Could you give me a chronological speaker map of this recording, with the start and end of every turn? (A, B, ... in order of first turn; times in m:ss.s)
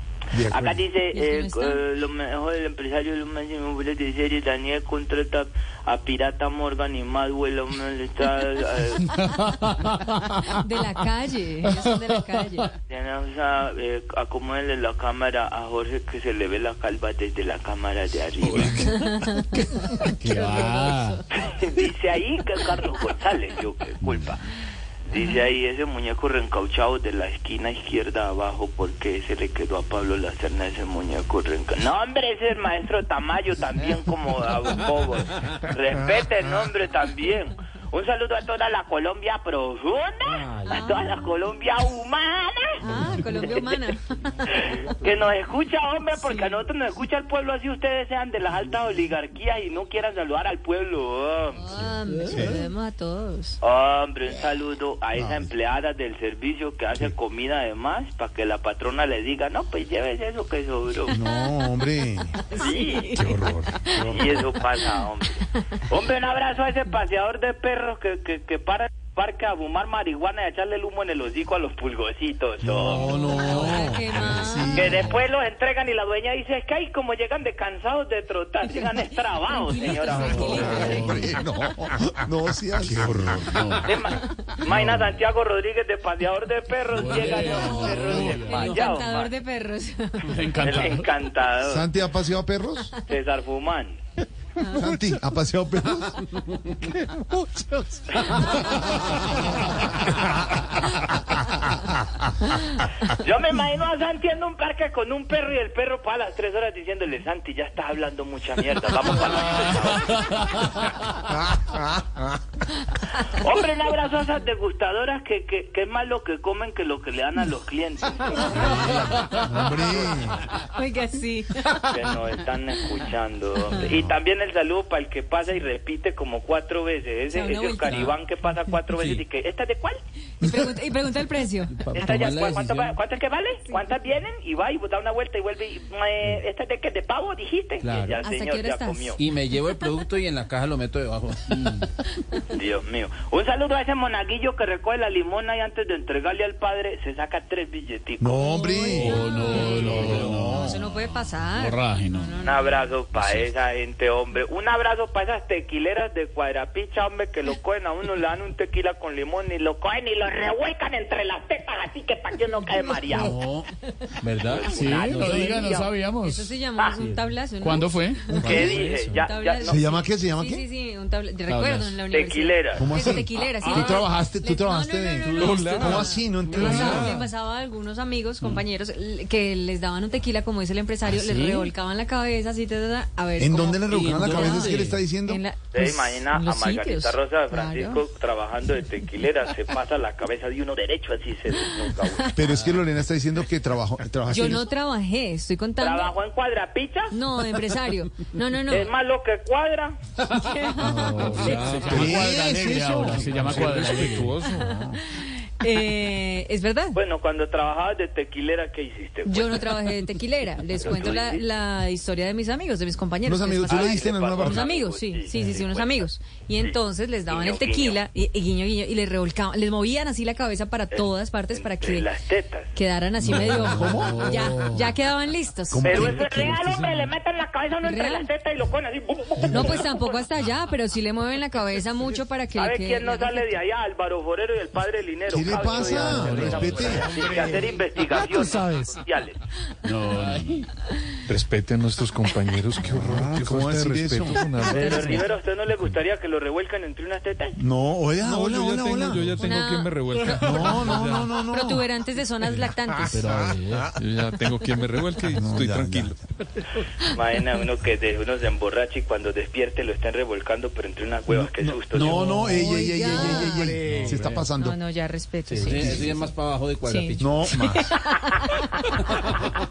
0:00.3-0:00.8 A
0:00.5-0:09.3 B
0:01.1-0:01.8 C
0:09.1-0:10.6 D
0:10.6-0:12.7 C
0:12.9-0:18.9 B
0:18.4-0:18.8 E
0:19.1-0:21.2 D
0:20.4-0:20.8 C
0:21.3-0:24.4 B
0:25.1-0:42.8 B
0:40.3-0:41.0 F
0:40.6-0:41.0 C
0:42.8-0:44.3 C
0:42.8-0:43.3 F
0:43.5-0:43.8 B
0:44.5-0:51.6 B
0:46.2-0:46.5 C
0:51.6-0:53.6 C
0:52.3-0:52.6 A
0:53.6-1:01.2 B
0:55.1-0:55.5 A
1:01.1-1:02.4 A
1:01.2-1:01.5 C
1:02.4-1:04.1 C
1:02.5-1:03.2 B
1:03.1-1:04.4 A
1:04.0-1:13.8 B
1:12.6-1:15.2 A
1:12.9-1:15.0 C
1:14.7-1:21.1 B
1:19.4-1:21.4 C
1:20.1-1:21.2 D
1:20.3-1:23.8 A
1:22.9-1:23.4 E
1:23.2-1:23.9 D
1:23.8-1:29.3 B
1:24.7-1:25.1 A
1:26.9-1:28.7 D
1:27.3-1:30.8 C
1:28.1-1:28.9 F
1:30.2-1:31.1 D
1:30.6-1:31.9 B
1:31.6-1:32.9 A
1:33.0-1:34.0 B
1:34.6-1:38.4 A
1:43.0-1:50.7 B
1:50.3-1:50.6 D
1:53.3-1:58.9 B
1:58.4-2:00.5 A
1:58.8-1:59.1 F
1:58.8-1:59.7 C
1:59.6-2:00.4 B
2:00.6-2:02.0 C
2:01.7-2:10.0 B
2:03.7-2:04.1 C
2:07.3-2:08.3 C
2:08.9-2:09.2 F
2:10.4-2:11.8 C
2:10.4-2:10.7 A
2:11.7-2:13.0 F
2:11.9-2:19.2 B
2:17.8-2:18.2 F
2:18.2-2:19.2 C
2:19.2-2:21.8 F
2:21.5-2:21.8 D
2:22.5-2:28.6 B
2:28.2-2:30.8 A
2:28.4-2:32.8 C
2:28.9-2:32.4 D
2:32.4-2:43.4 B
2:33.1-2:33.5 D
2:43.1-2:43.7 F
2:44.2-2:45.8 F
2:44.4-2:45.9 B
2:44.7-2:46.5 D
2:45.2-3:08.0 C
2:47.0-2:47.3 F
2:47.6-2:48.3 D
2:48.3-2:48.7 A
2:48.4-2:49.8 B
2:48.4-2:49.2 F
2:49.6-2:50.6 A
2:51.5-2:52.0 D
2:52.1-2:52.8 B
2:52.8-2:57.3 A
2:55.2-2:57.1 E
3:01.1-3:01.7 F
3:03.4-3:05.4 A
3:03.9-3:05.0 F
3:05.7-3:12.4 B
3:12.1-3:12.4 C
3:12.3-3:14.7 A
3:12.5-3:12.8 F
3:14.3-3:16.1 C
3:15.8-3:17.2 B
3:17.1-3:18.9 C
3:18.7-3:20.0 B
3:20.3-3:22.2 C
3:20.8-3:24.4 D
3:20.9-3:23.8 A
3:21.1-3:21.9 F
3:21.4-3:22.4 E
3:23.3-3:24.7 E
3:24.4-3:27.0 C
3:24.5-3:25.0 A
3:26.9-3:29.9 B
3:29.2-3:42.1 C
3:30.7-3:31.4 B
3:33.2-3:34.7 A
3:33.7-3:36.1 B
3:37.3-3:38.0 B
3:40.9-3:42.7 B
3:42.7-3:46.4 C
3:43.2-3:44.6 A
3:43.3-3:44.9 D
3:45.7-3:47.0 A
3:45.8-3:50.3 B
3:47.8-3:48.3 C
3:49.4-3:49.8 A
3:49.5-3:53.5 C
3:52.5-3:59.4 B
3:55.3-3:57.2 A
3:55.8-3:57.0 D
3:56.3-3:57.7 F
3:59.8-4:00.7 D
4:01.3-4:05.3 E
4:02.8-4:04.5 A
4:04.4-4:04.7 C
4:04.7-4:07.6 B
4:07.6-4:09.5 A
4:08.2-4:11.3 E
4:09.4-4:10.0 C
4:10.3-4:11.9 A
4:11.4-4:13.2 C
4:13.1-4:13.9 D
4:14.0-4:16.2 E
4:15.3-4:16.2 A
4:17.1-4:22.3 B
4:21.4-4:24.8 A
4:21.9-4:24.5 F
4:22.5-4:24.0 C
4:24.5-4:26.3 C
4:25.5-4:27.5 F
4:25.6-4:26.2 A
4:26.8-4:29.0 C
4:27.2-4:27.9 A